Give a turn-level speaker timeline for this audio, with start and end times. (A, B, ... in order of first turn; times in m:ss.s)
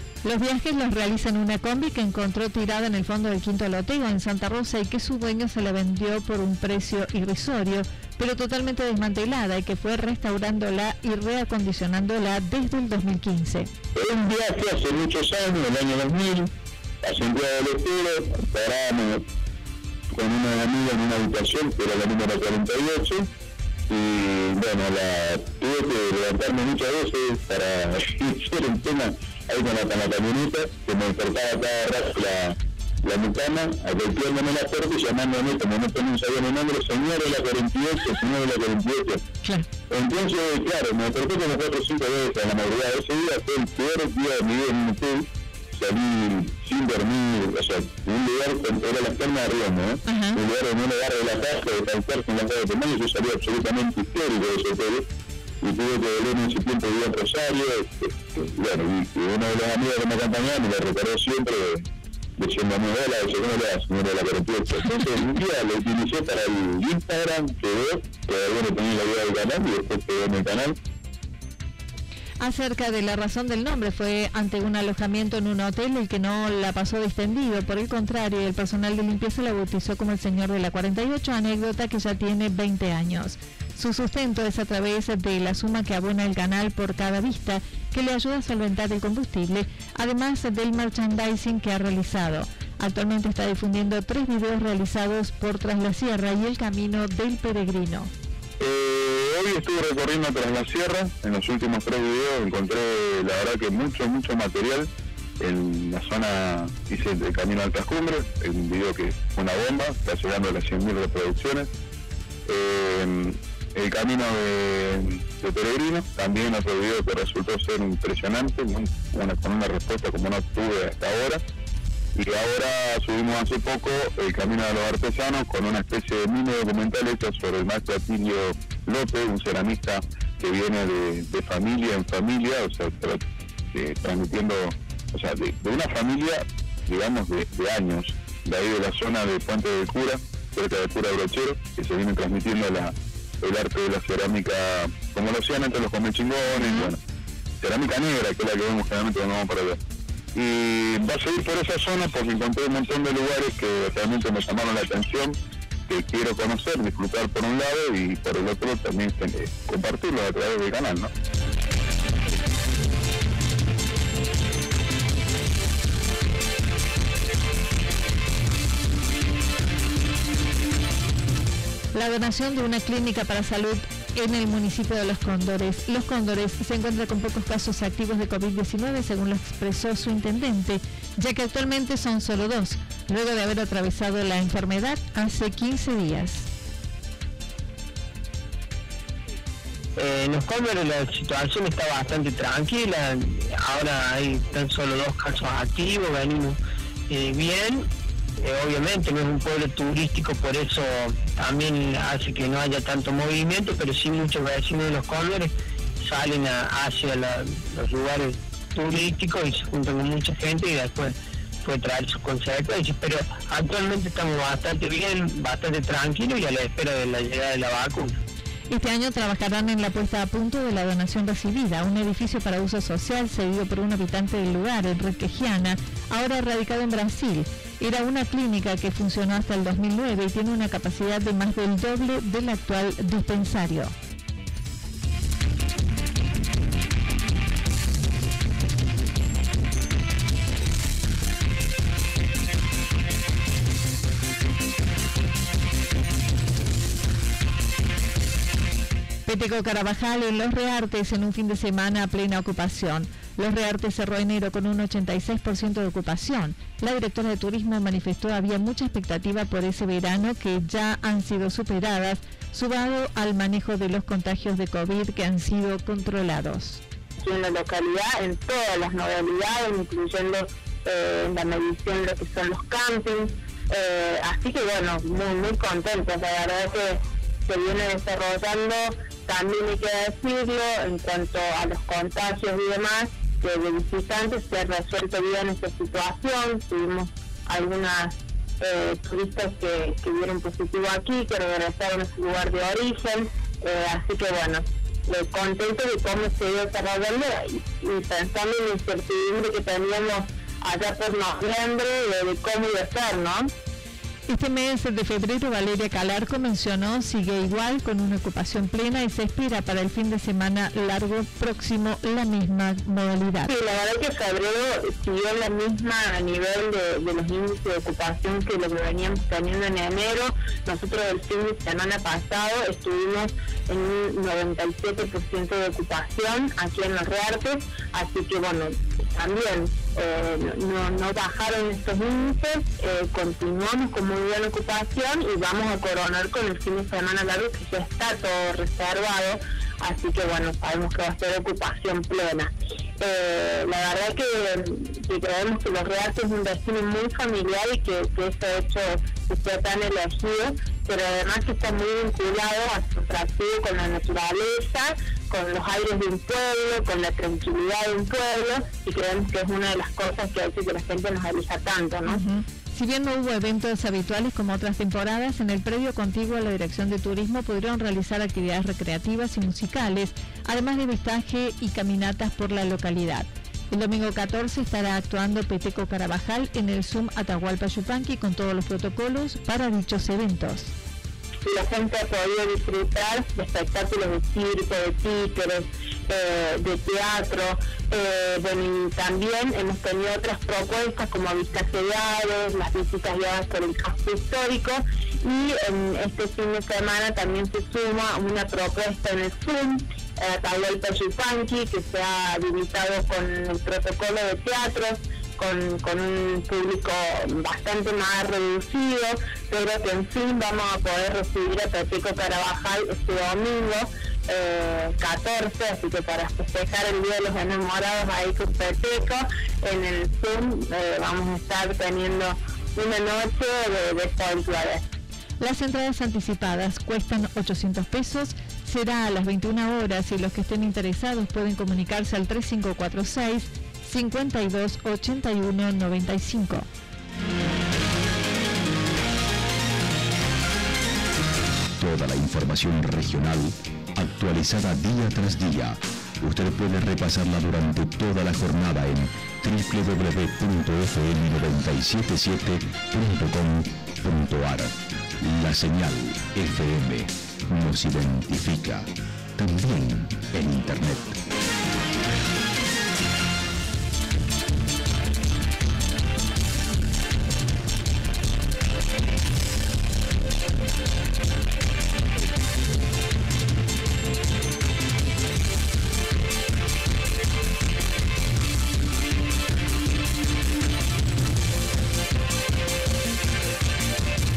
0:00.2-0:13.7 A
0:13.9-0:16.5 B
0:17.0-0:19.2 B
0:20.1-0:23.3 B
0:23.9-0:39.2 B
0:39.9-0:55.0 B
0:50.0-0:50.4 A
0:55.6-1:01.8 B
1:02.4-1:10.8 B
1:12.4-1:38.1 A
1:38.6-1:44.9 B
1:45.4-1:51.7 B
1:52.4-2:01.4 B
2:02.1-2:13.2 B
2:13.7-2:27.0 B
2:26.6-2:26.9 A
2:27.6-2:29.8 B
2:30.3-2:35.4 B
2:35.9-2:41.1 B
2:51.9-3:06.5 A
3:10.0-3:16.6 C
3:17.1-3:17.9 C
3:18.4-3:38.2 C
3:38.7-3:53.9 A
4:09.2-4:26.8 A
4:27.2-5:03.5 D
5:04.3-5:13.5 A
5:13.5-6:02.2 D
6:02.1-6:20.7 A
6:21.4-7:04.8 D
7:05.4-7:16.7 A
7:21.8-7:41.2 E